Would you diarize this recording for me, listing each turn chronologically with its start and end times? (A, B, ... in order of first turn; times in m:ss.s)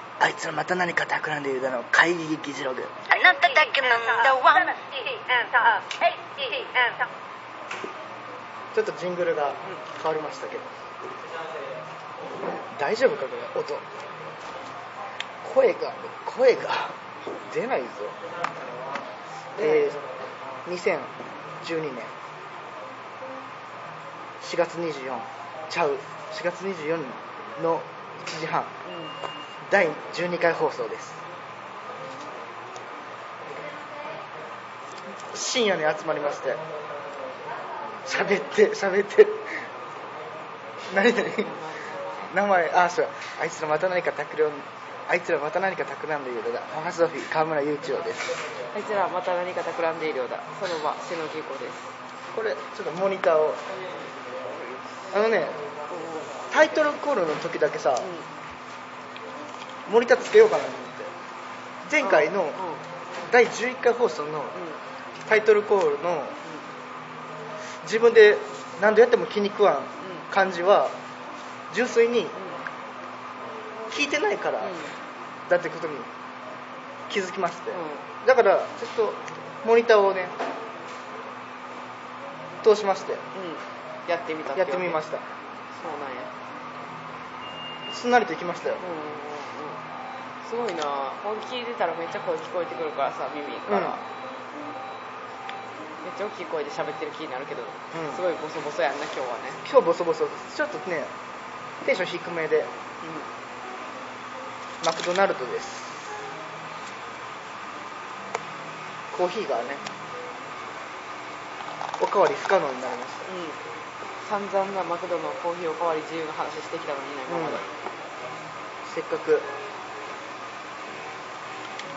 0:00.2-0:03.1 A
0:03.1-0:07.1 B
0:08.7-0:10.7 A
0:12.4-0:13.9 A
0:15.4-0:18.2 A
0:19.6-0:20.0 A
0:19.6-0:20.0 C
0:20.7-0:22.2 A
0:24.4-0:28.7 A
0:28.8-0:29.2 C
0:29.7-0:31.2 A
0:35.2-0:36.6 A
0:38.0-0:39.7 A
0:40.9-0:41.6 A
0:41.1-0:42.3 C
0:42.3-0:48.4 A
0:48.7-0:52.0 C
0:52.3-0:53.6 A
0:54.5-0:55.1 C
0:55.1-0:55.6 A
0:55.9-0:56.4 C
0:56.5-0:58.1 A
0:58.0-0:58.3 C
0:59.9-1:01.1 A
1:01.8-1:02.6 A
1:02.0-1:02.8 C
1:03.3-1:04.6 A
1:04.5-1:04.8 C
1:05.2-1:06.4 A
1:07.8-1:11.0 A
1:10.0-1:10.3 C
1:11.7-1:12.4 A
1:12.3-1:12.6 C
1:13.9-1:14.8 A
1:14.6-1:14.9 C
1:15.5-1:16.1 A
1:17.1-1:20.4 A
1:17.7-1:18.1 C
1:22.6-1:23.2 A
1:23.3-1:25.0 C
1:24.6-1:25.2 A
1:25.7-1:26.3 C
1:27.9-1:28.8 A
1:28.8-1:29.8 C
1:30.4-1:34.0 C
1:33.7-1:34.0 A
1:36.0-1:39.6 C
1:37.9-1:38.2 A
1:39.6-1:41.1 A
1:41.8-1:42.7 A
1:43.0-1:43.3 C
1:44.8-1:46.0 A
1:49.1-1:49.8 A
1:52.0-1:53.3 A
1:53.3-1:53.6 C
1:54.2-1:57.7 C
1:57.3-1:57.6 A
1:58.8-1:59.5 A